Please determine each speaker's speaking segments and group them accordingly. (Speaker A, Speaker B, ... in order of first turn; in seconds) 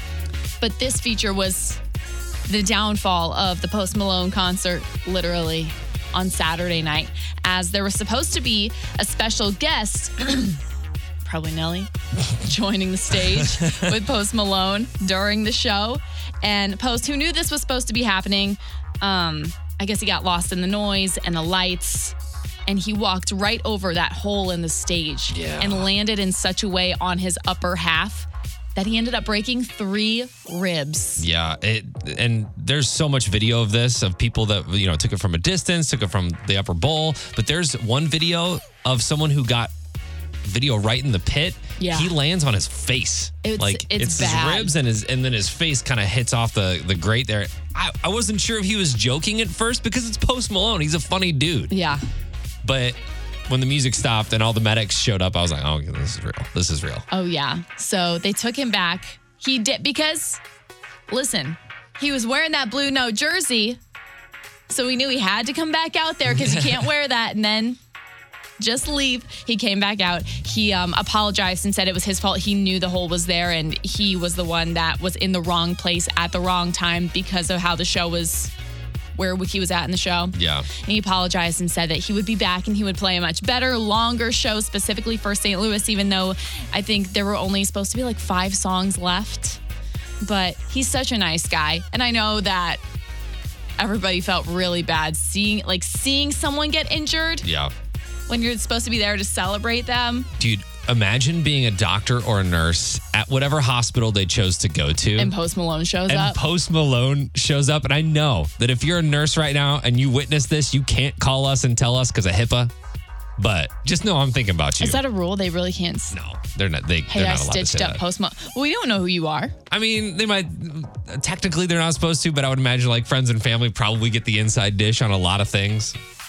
Speaker A: 0.6-1.8, 2.5-10.6, 11.2-22.1, 22.7-31.3, 41.8-42.1, 43.4-44.7, 51.7-52.0, 57.1-60.4, 61.1-63.8, 64.7-67.8, 68.6-78.5, 79.2-89.6, 90.2-92.8, 93.8-97.5, 98.3-100.3, 105.2-106.4, 114.8-116.2, 117.1-119.5
Speaker B: 25.3-25.9, 31.2-39.7, 40.4-51.7, 52.6-57.0, 66.3-66.9, 80.3-80.7, 97.4-97.7, 100.4-105.3, 106.1-112.7, 113.4-115.0, 116.1-118.0, 119.7-126.0